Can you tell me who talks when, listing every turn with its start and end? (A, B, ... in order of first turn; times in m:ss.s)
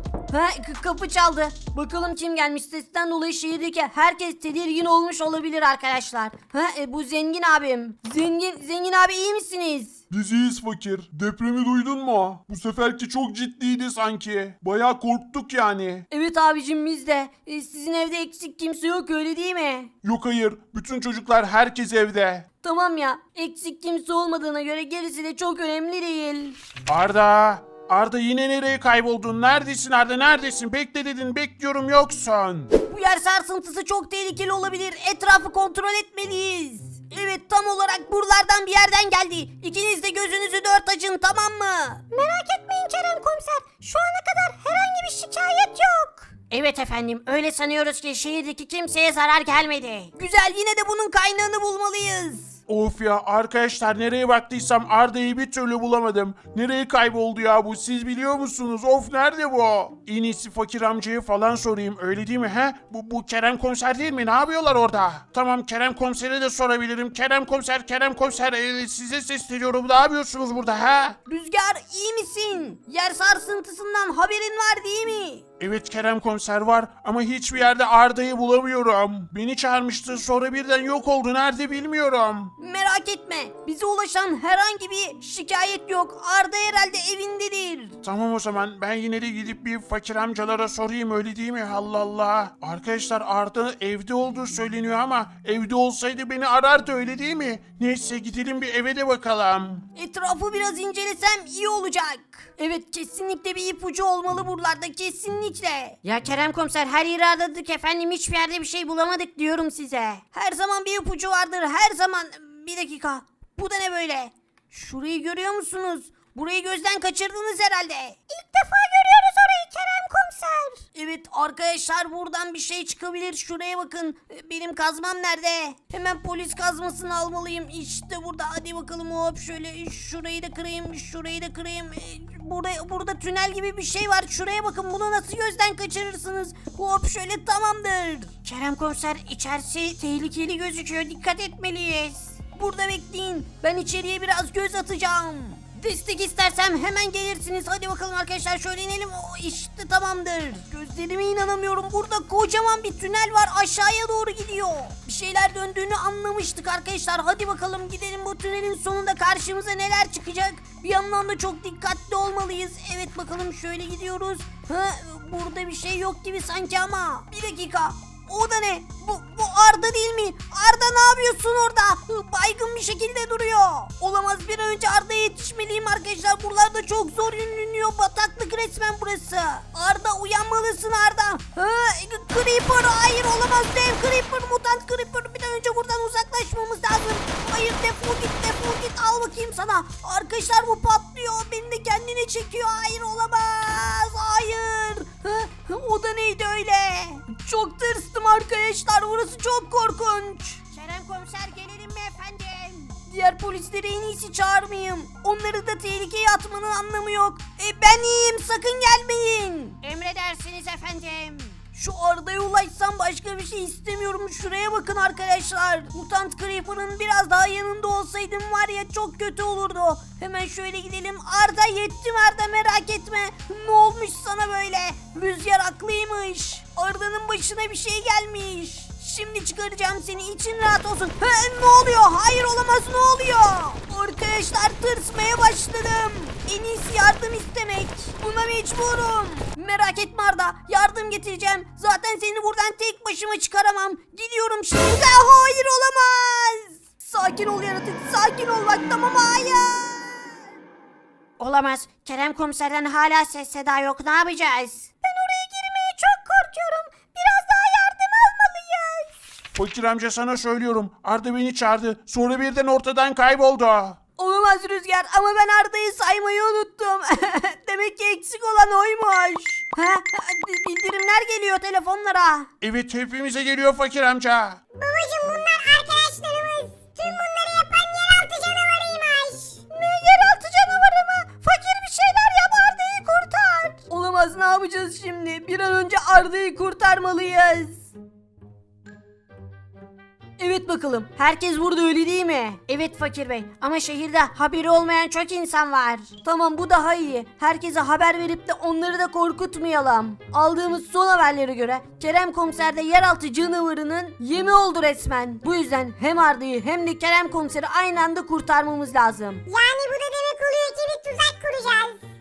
0:00.3-0:10.0 A
0:10.1-0:16.1 B
0:16.1-0:19.9 A
0:20.0-0:22.5 B
0:22.6-0:26.6 A
0:26.8-0:32.7 B
0:32.8-0:52.5 A
0:52.7-1:11.2 B
1:11.3-1:15.4 A
1:15.6-1:22.5 B
1:22.6-1:28.0 A
1:28.0-1:39.8 B
1:39.9-4:10.3 A
4:11.4-4:19.1 A
4:19.5-4:24.0 B
4:24.2-4:32.5 A
4:32.6-4:34.6 B
4:34.7-4:39.6 C
4:39.7-4:47.9 A
4:50.4-5:09.4 A
5:09.5-5:12.0 C